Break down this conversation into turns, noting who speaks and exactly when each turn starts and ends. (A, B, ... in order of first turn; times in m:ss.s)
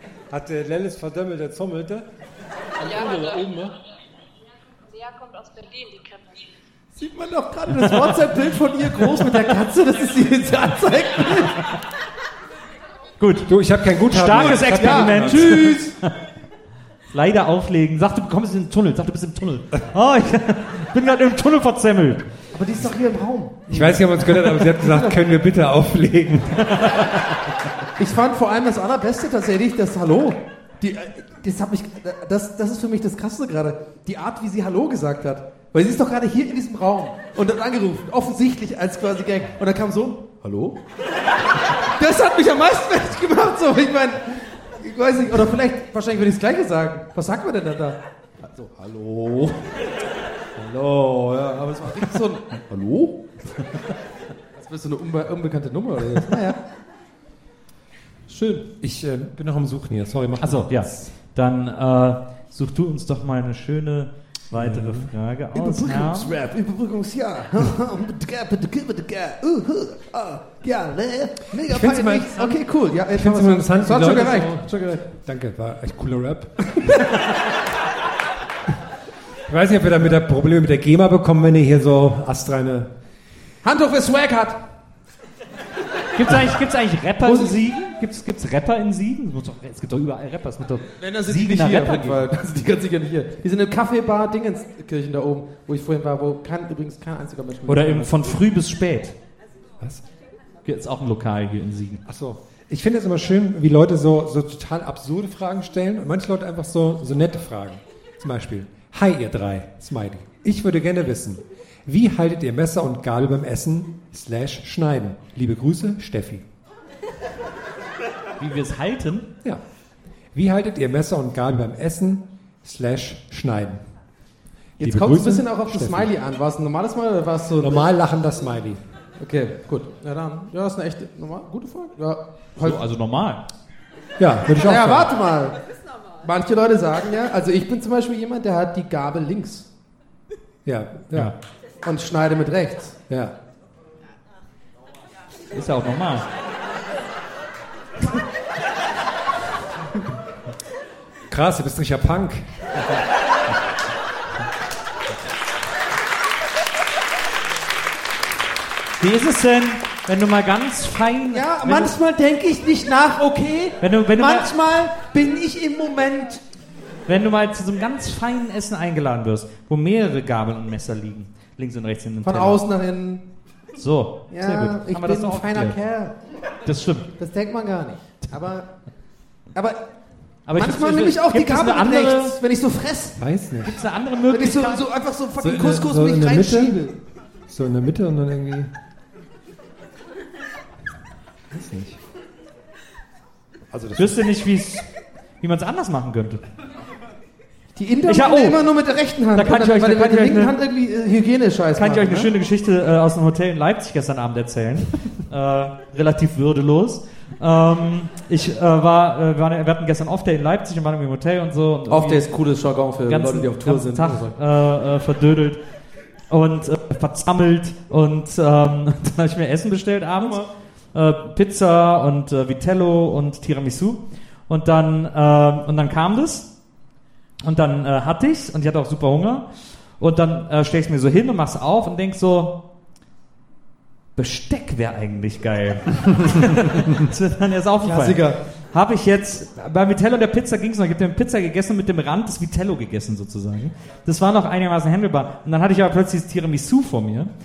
0:00.3-0:02.1 A
0:02.8-0:03.8 A
0:02.8-0:03.5 B
0:04.9-0:06.5 B
0:07.0-0:11.6 C
0:07.8-0:08.1 D
0:13.2-0:13.5 D
0:13.5-0:15.8 A
0:14.1-0:16.1 D
0:14.3-0:16.0 C
0:17.1-0:22.3 D
0:22.5-0:25.2 C
0:23.7-0:26.9 A
0:28.0-0:40.8 C
0:42.0-0:49.7 C
0:50.6-0:53.2 C
0:54.6-0:56.6 C
0:58.3-0:58.7 C
0:58.8-1:01.1 A
1:00.4-1:06.3 D
1:04.5-1:05.1 A
1:05.5-1:15.0 C
1:11.6-1:16.9 A
1:16.9-1:17.2 C
1:19.5-1:22.9 A
1:23.6-1:24.6 C
1:26.2-1:32.2 D
1:27.2-1:27.6 C
1:31.0-1:38.3 C
1:37.7-1:39.2 D
1:40.6-1:42.0 D
1:42.0-1:56.4 A
1:58.4-1:59.3 D
2:00.3-2:03.8 A
2:04.8-2:07.9 C
2:04.8-2:06.1 A
2:07.6-2:08.8 A
2:09.2-2:12.8 C
2:12.6-2:13.4 D
2:14.2-2:15.1 A
2:14.6-2:15.6 C
2:16.2-2:19.7 C
2:20.6-2:21.3 A
2:21.8-2:23.0 C
2:23.1-2:23.3 A
2:25.5-2:26.2 D
2:31.3-2:32.5 A
2:39.0-2:41.9 D
2:41.3-2:46.4 C
2:43.8-2:44.5 D
2:47.1-2:52.6 D
2:52.2-2:53.3 C
2:53.8-2:55.8 D
2:54.3-2:56.2 C
2:56.7-2:57.1 D
2:57.2-2:58.7 C
2:59.5-2:59.8 C
3:00.5-3:02.4 D
3:00.5-3:03.2 C
3:03.2-3:03.8 A
3:03.6-3:04.8 D
3:04.3-3:07.0 C
3:05.4-3:06.8 A
3:07.5-3:08.7 A
3:11.5-3:12.0 A
3:13.7-3:14.2 A
3:14.0-3:14.9 D
3:15.4-3:16.4 D
3:17.8-3:22.3 C
3:18.1-3:18.7 D
3:19.3-3:20.6 D
3:21.8-3:32.2 D
3:31.9-3:34.3 C
3:33.1-3:35.6 D
3:36.3-3:40.4 D
3:40.2-3:40.5 C
3:40.9-3:46.5 D
3:47.4-3:49.5 D
3:50.0-3:52.6 D
3:54.2-4:07.3 D
3:57.8-3:58.4 C